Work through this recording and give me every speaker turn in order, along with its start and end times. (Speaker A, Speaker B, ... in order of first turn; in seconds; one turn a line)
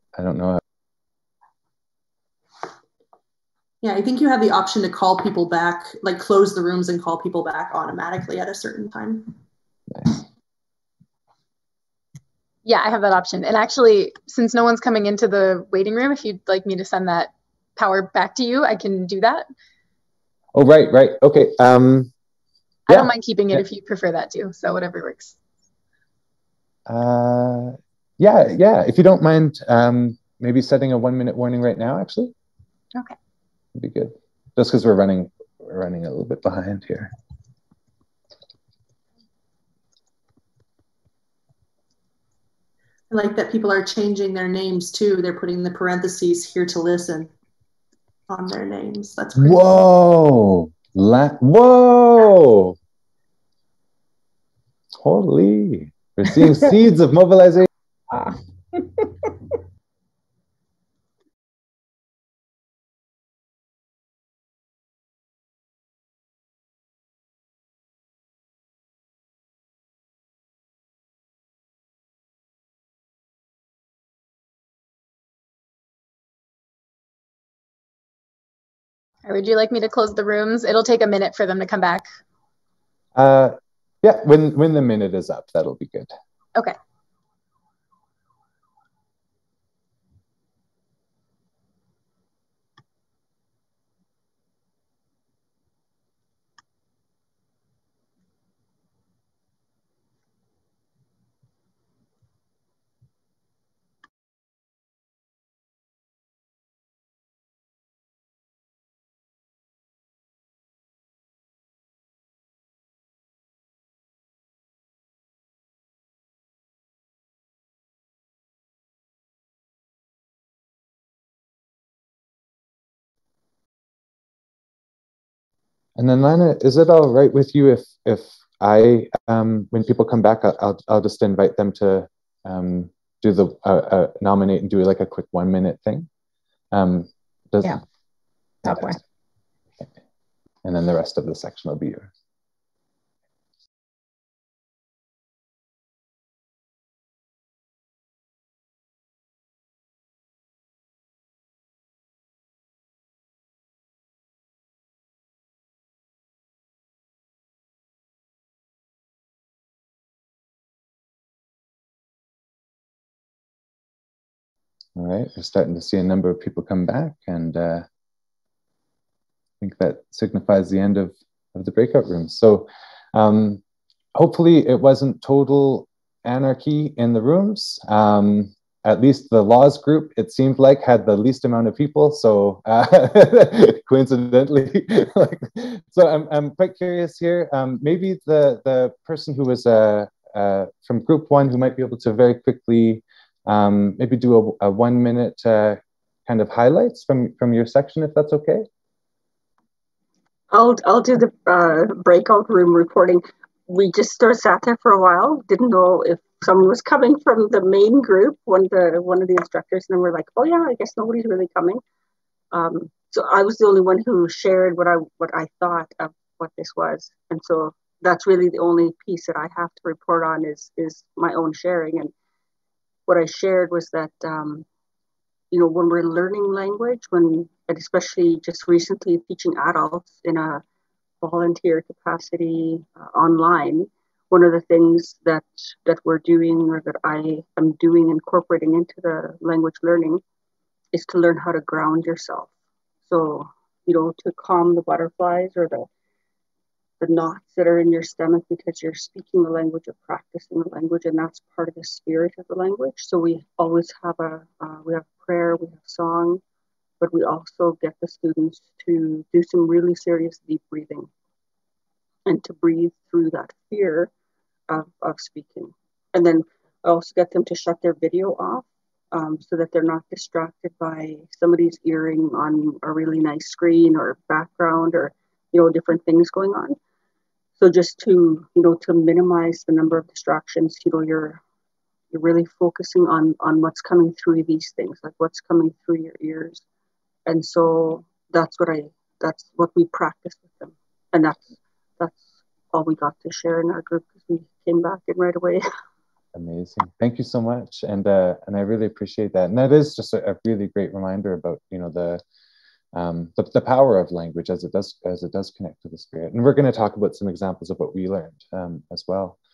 Speaker A: 0.1-0.6
Speaker B: 3.8-9.3
Speaker C: 12.6-19.4
Speaker A: 20.5-22.1
Speaker C: 22.9-25.4
Speaker A: 22.9-23.6
Speaker A: 26.9-32.3
Speaker A: 33.8-37.1
Speaker B: 43.1-47.3
Speaker B: 48.3-49.6
Speaker A: 49.4-52.8
Speaker A: 55.0-57.7
Speaker C: 79.2-82.0
Speaker A: 83.1-86.1
Speaker A: 126.0-136.1
Speaker A: 136.7-137.8
Speaker A: 138.6-139.0
Speaker C: 138.7-138.9
Speaker A: 140.6-142.1
Speaker A: 164.9-167.8
Speaker A: 169.6-173.6
Speaker A: 174.2-198.7
Speaker D: 200.5-211.8
Speaker D: 212.5-222.1
Speaker D: 223.1-224.6
Speaker D: 225.5-230.6
Speaker D: 231.2-240.2
Speaker D: 240.9-242.5
Speaker D: 243.0-245.9
Speaker D: 247.0-256.4
Speaker D: 257.0-261.1
Speaker D: 262.2-264.1
Speaker D: 264.7-276.8
Speaker D: 277.6-281.4
Speaker D: 282.1-286.6
Speaker D: 287.2-291.4
Speaker D: 292.0-295.6
Speaker A: 296.3-302.2
Speaker A: 302.9-309.4